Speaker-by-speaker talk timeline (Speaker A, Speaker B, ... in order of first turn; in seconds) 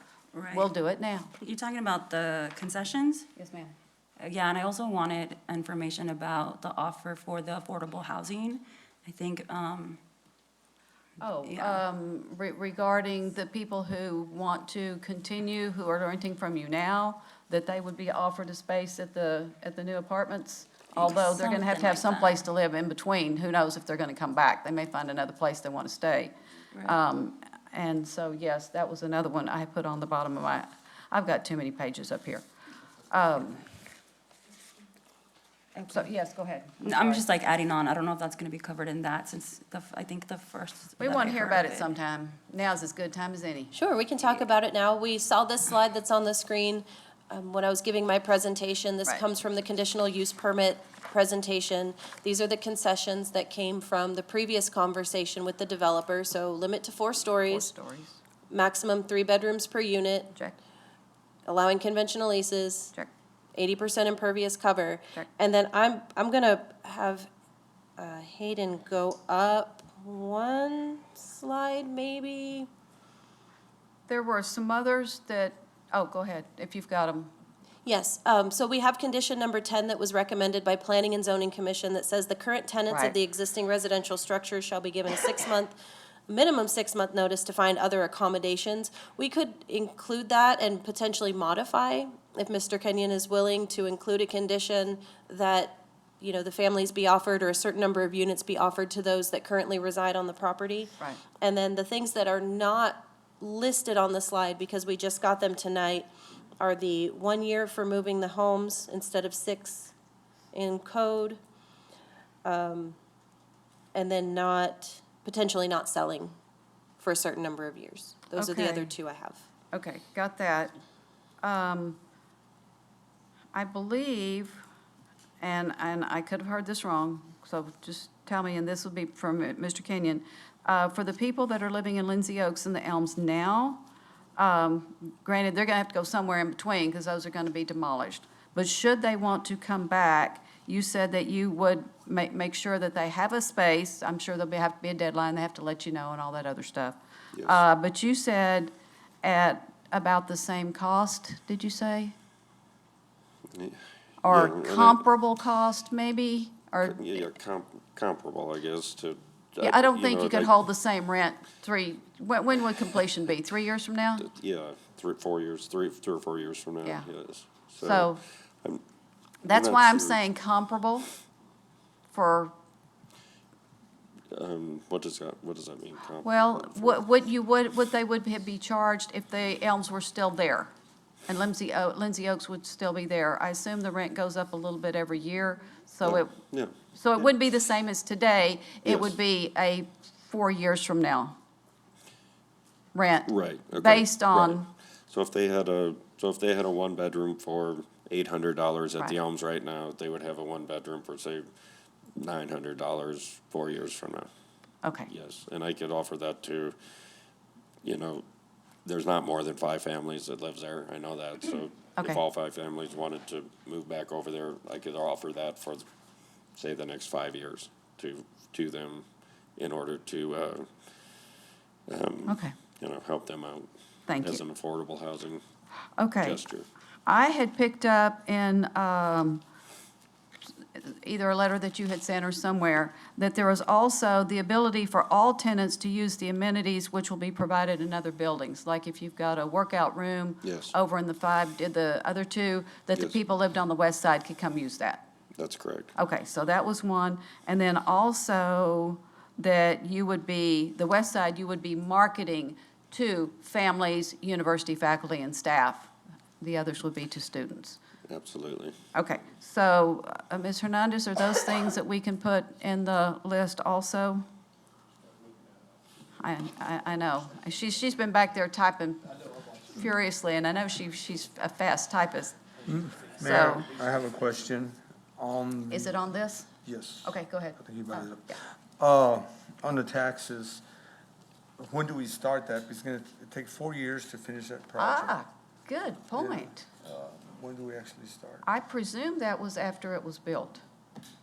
Speaker A: 0.3-0.7, 1.4-3.3, 4.2-10.0, 11.4-11.8, 20.9-22.4, 35.7-36.1, 36.8-42.0
Speaker B: 0.5-1.3, 3.4-3.7, 11.2-32.4, 33.1-33.6, 35.9-37.2, 41.0-43.7, 57.4-58.2, 74.1-77.3, 118.4-118.9, 119.7-120.7, 121.4-122.0, 123.5-124.6, 125.4-133.8, 134.4-148.7, 149.2-152.1, 154.2-157.2, 159.6-164.3, 167.8-168.2, 169.4-171.1, 172.1-172.5, 176.2-180.7, 181.3-186.3, 186.9-191.3, 192.9-194.7, 204.8-205.1, 222.3-222.6, 224.1-224.4, 226.0-226.4, 227.1-229.4, 230.7-245.0, 245.9-257.8, 258.9-264.2, 266.2-269.1, 269.7-272.4, 273.2-273.7, 275.7-276.5, 277.0-278.4, 284.8-286.6, 288.4-290.6
Speaker C: 43.7-57.7, 58.5-60.3, 61.5-62.9, 63.5-67.3, 68.0-72.7, 77.8-85.7, 86.3-109.9, 110.5-111.4, 112.4-113.0, 113.9-116.3, 117.0-119.5
Speaker D: 147.3-147.6, 153.5-155.0, 156.8-160.5, 164.2-168.8, 169.5-170.2, 174.3-177.0, 186.0-187.3, 188.8-189.1, 193.3-201.5, 202.2-204.3, 205.1-206.8, 207.8-208.2, 208.8-215.8, 216.5-220.7, 221.9-223.7, 224.2-225.4, 226.2-226.7, 240.4-240.7, 245.4-245.9, 258.1-258.8
Speaker E: 272.6-275.9, 276.6-280.6, 281.6-285.2, 286.1-288.4